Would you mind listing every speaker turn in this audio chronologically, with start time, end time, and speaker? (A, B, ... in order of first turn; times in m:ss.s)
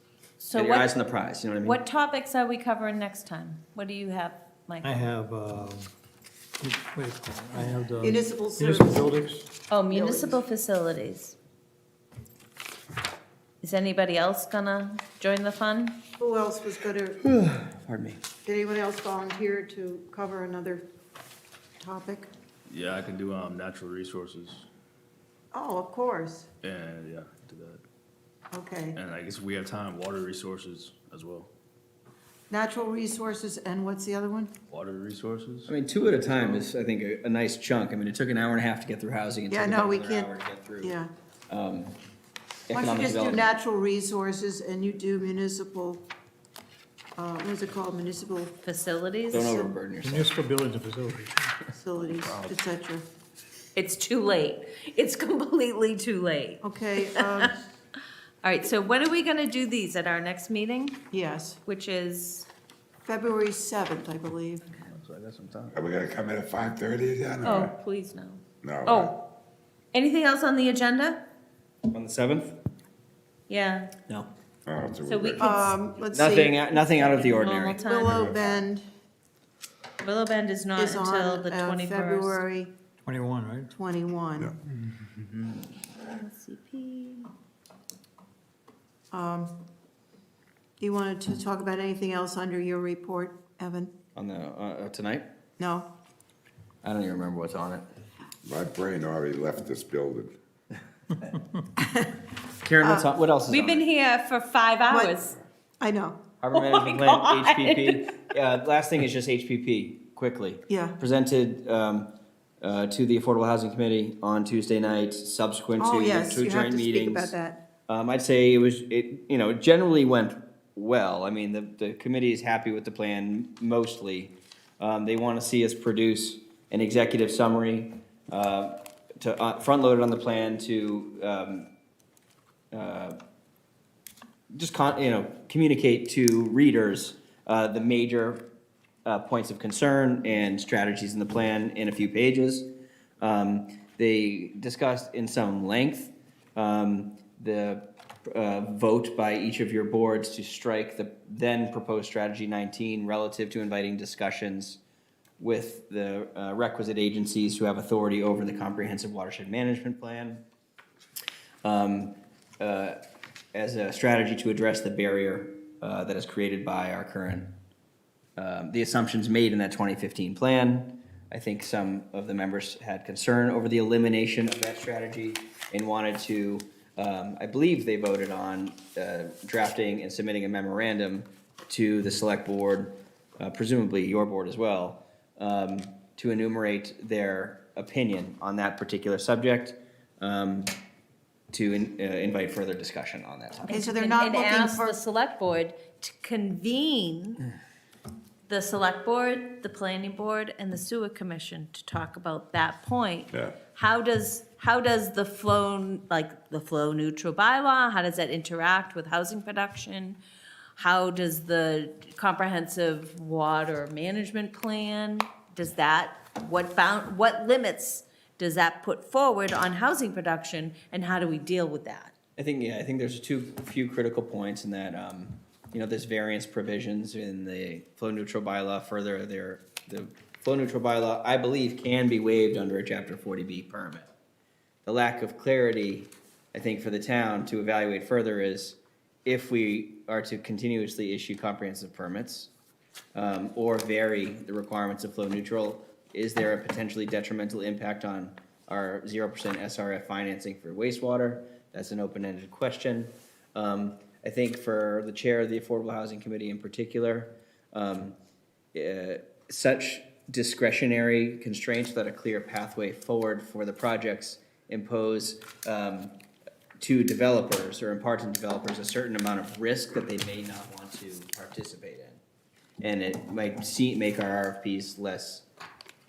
0:00.4-0:00.9 A
0:00.5-0:01.8 B
0:01.6-0:05.1 A
0:04.8-0:05.9 C
0:06.6-0:09.5 C
0:08.0-0:09.1 D
0:09.7-0:11.4 A
0:09.9-0:10.4 D
0:13.6-0:16.0 A
0:16.2-0:17.2 D
0:17.2-0:18.2 B
0:18.4-0:20.8 D
0:21.8-0:22.3 D
0:22.7-0:24.7 E
0:25.5-0:26.5 D
0:26.6-0:27.8 E
0:28.5-0:29.0 D
0:28.9-0:31.5 E
0:32.5-0:34.5 D
0:34.7-0:36.7 E
0:35.7-0:41.0 B
0:39.5-0:40.3 D
0:40.8-0:41.1 D
0:41.5-0:42.0 B
0:42.7-0:43.5 B
0:42.7-0:46.1 D
0:47.2-0:48.6 D
0:48.6-0:49.6 A
0:49.3-0:50.4 B
0:49.3-0:49.8 D
0:50.0-0:51.5 C
0:51.7-0:53.1 D
0:52.3-0:52.5 E
0:53.8-0:57.5 A
0:56.6-0:57.6 D
0:58.4-1:01.1 A
1:01.1-1:01.6 D
1:01.6-1:02.5 A
1:03.0-1:04.7 D
1:04.8-1:05.8 E
1:05.7-1:07.8 F
1:07.4-1:09.3 A
1:08.6-1:09.1 F
1:09.9-1:11.2 A
1:11.9-1:12.5 B
1:13.5-1:13.9 A
1:14.7-1:15.5 F
1:15.1-1:15.7 A
1:15.4-1:16.7 D
1:16.1-1:17.9 B
1:16.8-1:18.3 A
1:17.8-1:18.8 D
1:18.0-1:18.4 F
1:20.0-1:22.4 A
1:20.8-1:22.7 D
1:23.0-1:23.7 C
1:23.7-1:24.5 D
1:24.7-1:25.2 C
1:25.8-1:27.3 A
1:29.1-1:29.5 D
1:30.8-1:33.9 D
1:34.2-1:35.3 B
1:35.6-1:35.9 D
1:36.8-1:37.9 B
1:38.4-1:40.4 F
1:41.8-1:42.1 D
1:42.6-1:43.8 B
1:42.8-1:43.1 D
1:43.5-1:45.4 A
1:44.9-1:45.2 D
1:45.8-1:46.2 D
1:46.4-1:57.3 B
1:46.5-1:48.3 A
1:50.7-1:51.0 D
1:55.8-1:57.6 D
1:57.9-2:11.7 B
2:12.7-2:13.2 B
2:14.5-2:18.4 B
2:19.0-2:22.7 B
2:23.2-2:34.8 B
2:35.4-2:40.4 B
2:41.6-2:43.0 B
2:43.5-2:47.6 B
2:48.4-3:10.8 B
3:11.5-3:13.8 B
3:13.6-3:17.4 A
3:13.7-3:15.0 D
3:18.5-3:30.2 A
3:30.8-3:42.1 A
3:42.4-3:54.1 B
3:54.8-4:02.5 B
4:03.1-4:18.2 B
4:18.7-4:26.2 B
4:26.8-4:32.2 B
4:32.8-4:35.4 B